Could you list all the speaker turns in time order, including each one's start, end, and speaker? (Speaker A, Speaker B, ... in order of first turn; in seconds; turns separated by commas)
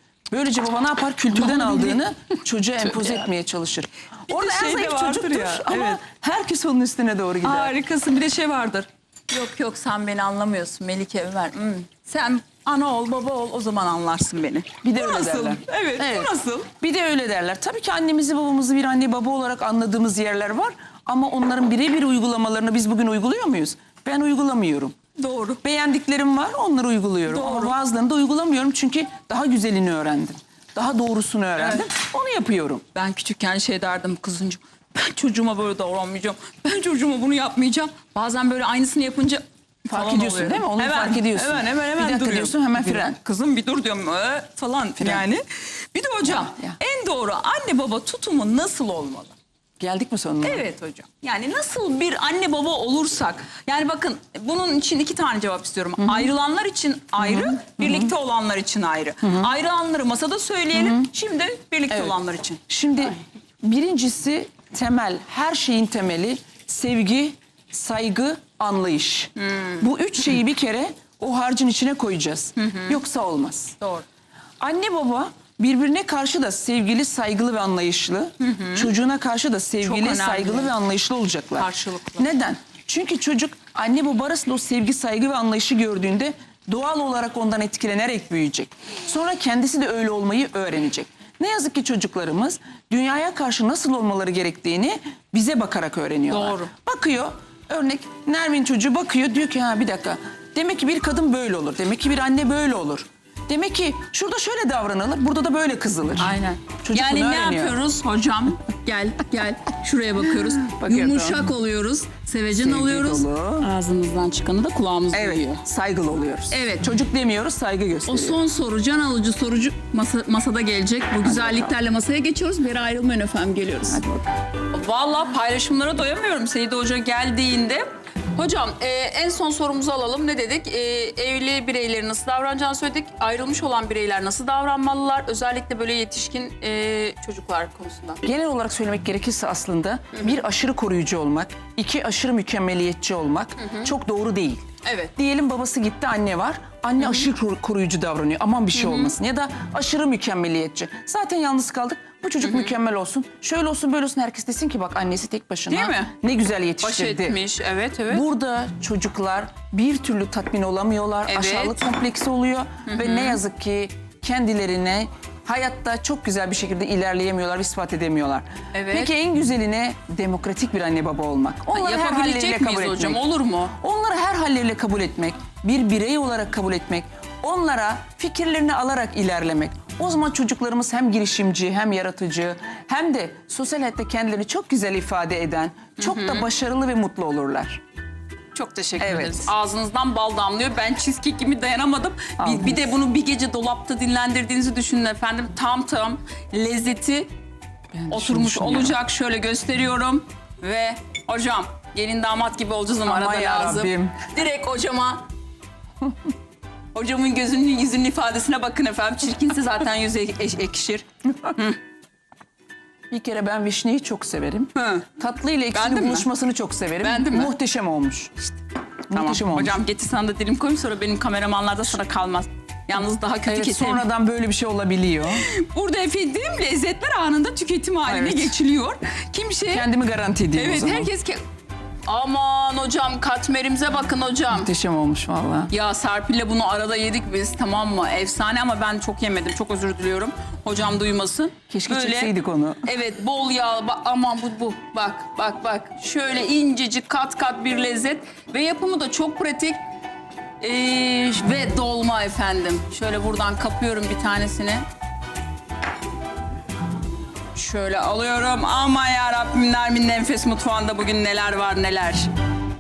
Speaker A: 0.3-7.7, Speaker B: 1.3-2.0, Speaker B: 4.3-6.0, Speaker B: 7.4-16.7, Speaker A: 14.8-24.9, Speaker B: 25.2-25.6, Speaker A: 25.6-32.8, Speaker B: 27.3-27.7, Speaker B: 31.6-31.9, Speaker B: 32.9-49.4, Speaker A: 39.9-43.2, Speaker A: 45.0-45.2, Speaker A: 46.2-46.8, Speaker A: 49.8-50.6, Speaker B: 50.4-62.6, Speaker A: 56.0-56.3, Speaker A: 57.2-58.1, Speaker A: 59.2-59.5, Speaker A: 60.8-61.1, Speaker A: 61.9-62.2, Speaker A: 62.7-73.8, Speaker B: 69.4-69.9, Speaker B: 72.6-73.0, Speaker B: 73.8-74.0, Speaker A: 74.6-107.8, Speaker B: 78.4-78.9, Speaker B: 79.8-80.7, Speaker B: 81.6-82.3, Speaker B: 96.3-96.7, Speaker B: 106.2-115.6, Speaker A: 110.3-111.5, Speaker A: 112.5-113.7, Speaker A: 115.1-118.4, Speaker B: 116.5-116.9, Speaker B: 118.1-124.0, Speaker A: 121.2-121.7, Speaker A: 123.9-124.3, Speaker B: 124.7-127.8, Speaker B: 128.4-138.2, Speaker A: 138.2-157.4, Speaker B: 143.6-143.9, Speaker B: 144.8-145.1, Speaker B: 147.0-147.3, Speaker B: 148.7-149.2, Speaker B: 152.4-152.7, Speaker B: 155.7-156.1, Speaker B: 156.8-158.2, Speaker A: 158.1-173.2, Speaker B: 161.3-161.8, Speaker B: 162.9-163.4, Speaker B: 168.7-169.1, Speaker B: 171.7-173.7, Speaker A: 173.8-187.8, Speaker B: 186.0-186.5, Speaker B: 188.6-197.3, Speaker A: 189.0-189.5, Speaker A: 192.4-192.9, Speaker A: 197.9-198.9, Speaker B: 198.1-205.3, Speaker A: 203.0-204.3, Speaker B: 206.9-211.8, Speaker A: 213.1-218.4, Speaker B: 214.8-215.1, Speaker B: 215.7-216.3, Speaker B: 217.0-217.5, Speaker A: 219.1-219.8, Speaker B: 219.1-224.1, Speaker A: 223.5-225.4, Speaker B: 225.3-229.9, Speaker A: 228.1-228.6, Speaker A: 229.7-231.1, Speaker B: 230.5-231.4, Speaker B: 232.1-234.7, Speaker A: 234.5-235.7, Speaker B: 235.7-249.8, Speaker A: 241.7-242.9, Speaker B: 250.6-254.8, Speaker B: 257.6-262.3